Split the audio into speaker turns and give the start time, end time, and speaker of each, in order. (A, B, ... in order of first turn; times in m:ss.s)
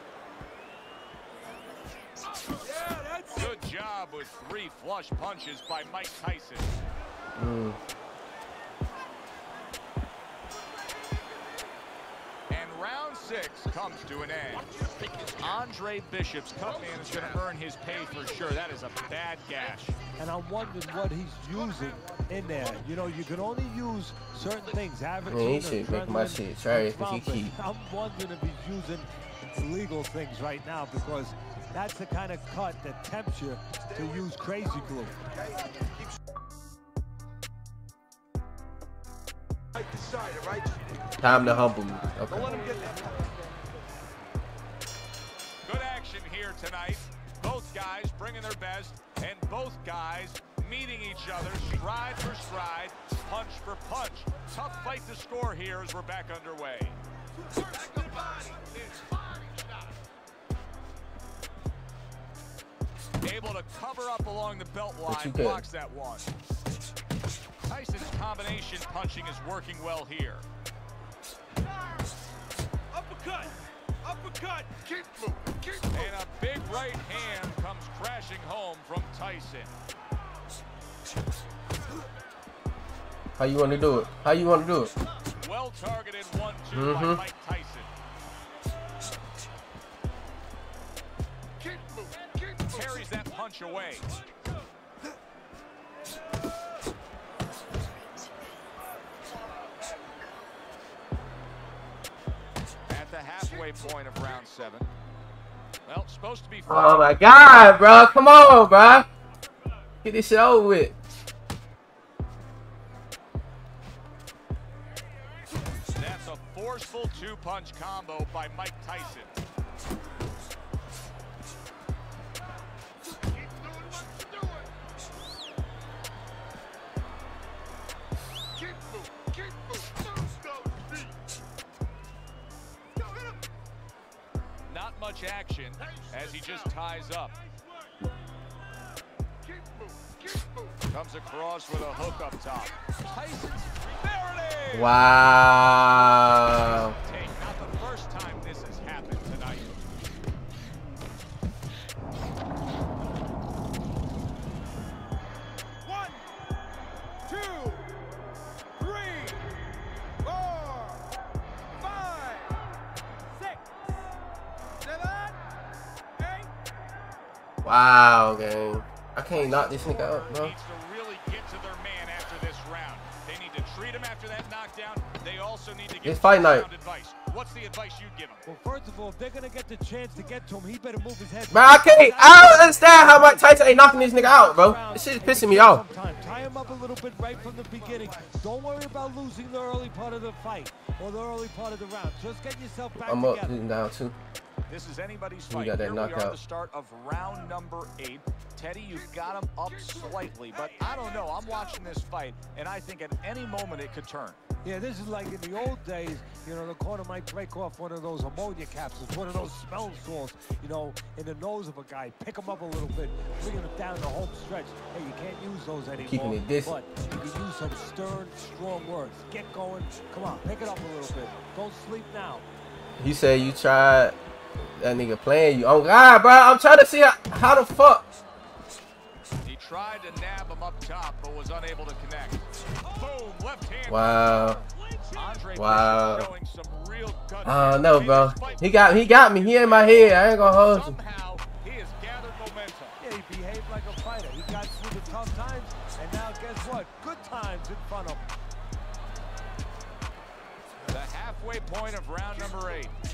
0:02.4-0:03.5 A
0:03.3-0:06.8 B
0:07.4-0:07.8 C
0:12.5-0:14.8 B
0:15.4-0:20.0 B
0:20.2-0:35.1 D
0:25.3-0:27.6 C
0:39.8-0:41.0 A
0:41.2-0:42.7 C
0:42.3-0:43.4 A
0:45.6-0:57.0 B
0:57.6-0:59.4 A
1:03.2-1:06.3 B
1:05.1-1:05.6 C
1:07.6-1:10.5 B
1:12.9-1:14.7 A
1:15.9-1:19.7 B
1:23.4-1:24.9 C
1:25.4-1:27.9 B
1:26.7-1:27.2 C
1:32.7-1:34.1 B
1:42.9-1:44.9 B
1:45.9-1:47.1 B
1:46.7-1:49.1 C
1:50.0-1:51.0 C
1:56.0-1:59.4 B
2:14.7-2:17.4 B
2:20.9-2:25.1 B
2:24.7-2:27.0 C
2:26.4-2:29.8 B
2:47.6-2:50.5 C
2:49.3-2:58.4 B
2:56.0-2:56.7 C
2:58.4-3:03.1 D
3:01.5-3:05.8 C
3:04.3-3:13.6 D
3:07.7-3:08.3 A
3:13.0-3:14.2 C
3:14.7-3:24.4 B
3:15.5-3:16.4 C
3:24.6-3:42.4 D
3:36.0-3:36.7 C
3:43.0-3:44.2 C
3:44.8-3:48.1 C
3:49.4-3:54.6 B
3:53.9-3:54.6 C
3:54.8-3:55.1 A
3:55.1-4:03.0 B
3:55.6-3:56.3 C
3:57.4-4:01.0 C
4:03.0-4:08.2 D
4:10.9-4:12.9 B